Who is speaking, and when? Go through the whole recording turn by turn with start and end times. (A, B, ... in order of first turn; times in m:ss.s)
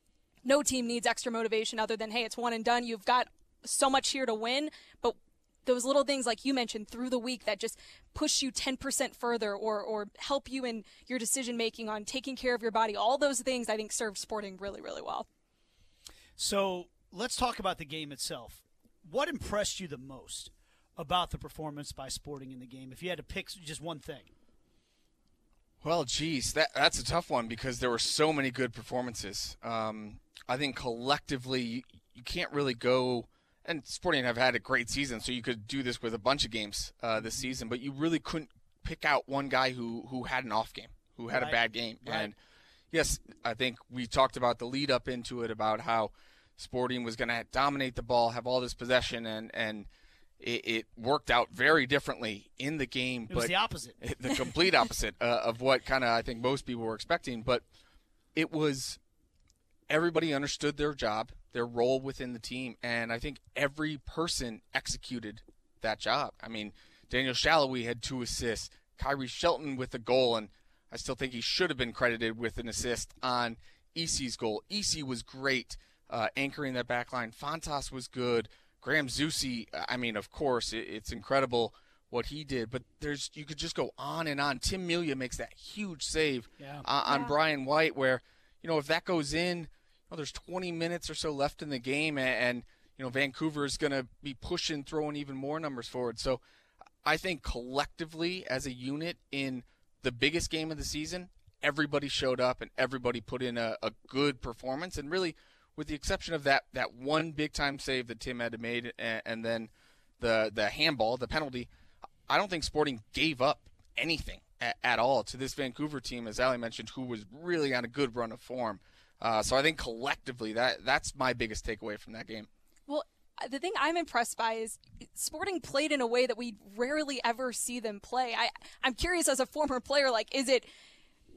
0:00.4-0:15.3 A
0:16.4-0:24.3 B
0:25.8-0:42.4 C
0:41.3-0:42.3 B
0:42.9-0:49.9 C
0:50.4-0:57.6 C
0:53.3-0:54.0 B
0:58.3-0:59.0 C
0:59.9-1:36.4 C
1:26.6-1:26.8 B
1:27.0-1:27.4 A
1:37.0-1:51.7 C
1:52.3-2:02.5 C
2:02.9-2:10.7 A